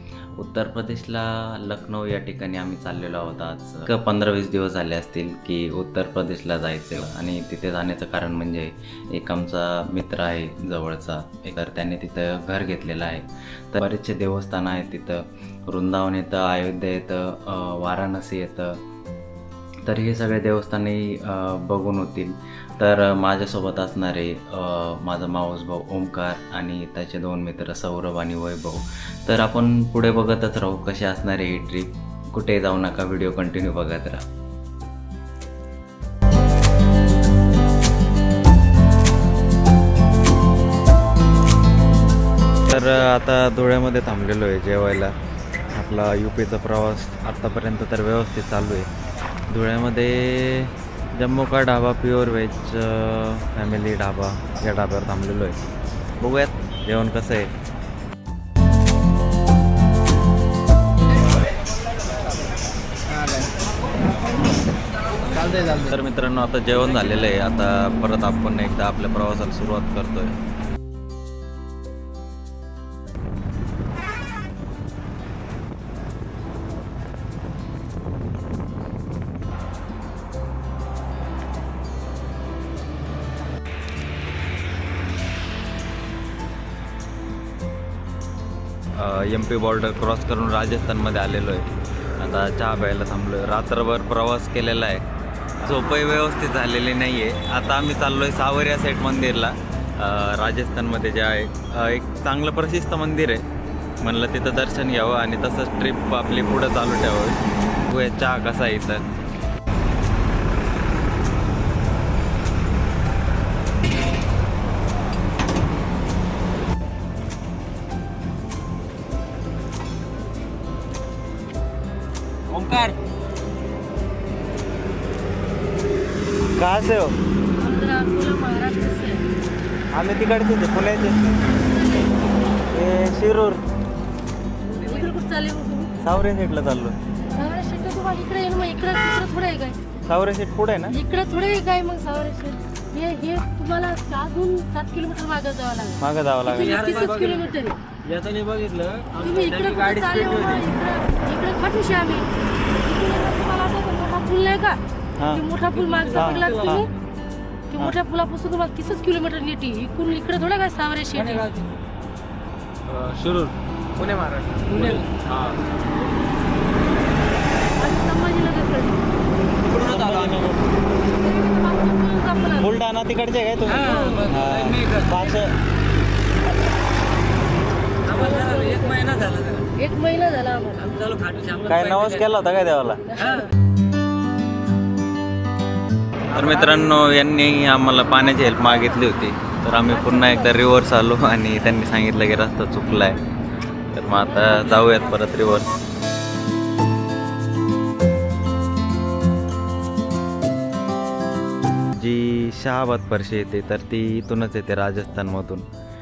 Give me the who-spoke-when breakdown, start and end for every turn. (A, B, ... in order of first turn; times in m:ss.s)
0:00.4-0:18.8 A
0:19.9-0:34.2 A
0:42.7-0:45.1 A
0:45.7-0:48.9 A
0:49.5-0:55.6 A
0:56.2-0:57.5 A
1:05.6-1:10.4 A
1:29.0-1:31.7 A
1:32.2-1:35.0 A
1:35.6-1:43.4 A
1:44.0-1:49.0 A
2:06.6-2:07.2 A
2:07.6-2:09.2 B
2:09.9-2:11.2 A
2:11.5-2:12.4 B
2:12.7-2:13.6 A
2:14.7-2:15.9 B
2:16.0-2:17.0 A
2:17.3-2:19.8 B
2:20.1-2:21.0 A
2:20.9-2:27.8 B
2:26.0-2:26.9 A
2:28.1-2:29.2 C
2:29.2-2:32.3 B
2:29.6-2:30.6 A
2:32.8-2:34.8 B
2:35.2-2:35.4 A
2:35.3-2:36.9 B
2:36.1-2:36.9 A
2:36.3-2:36.7 C
2:37.7-2:41.5 B
2:42.9-2:45.6 C
2:47.8-2:49.0 B
2:49.7-2:50.6 A
2:49.9-2:50.2 C
2:51.2-2:52.7 B
2:52.6-2:55.5 A
2:58.1-2:58.9 B
2:58.9-2:59.6 C
2:59.7-3:01.0 B
3:01.0-3:01.7 C
3:01.7-3:03.0 A
3:06.3-3:13.2 A
3:13.9-3:15.7 A
3:14.4-3:15.0 B
3:22.0-3:25.6 A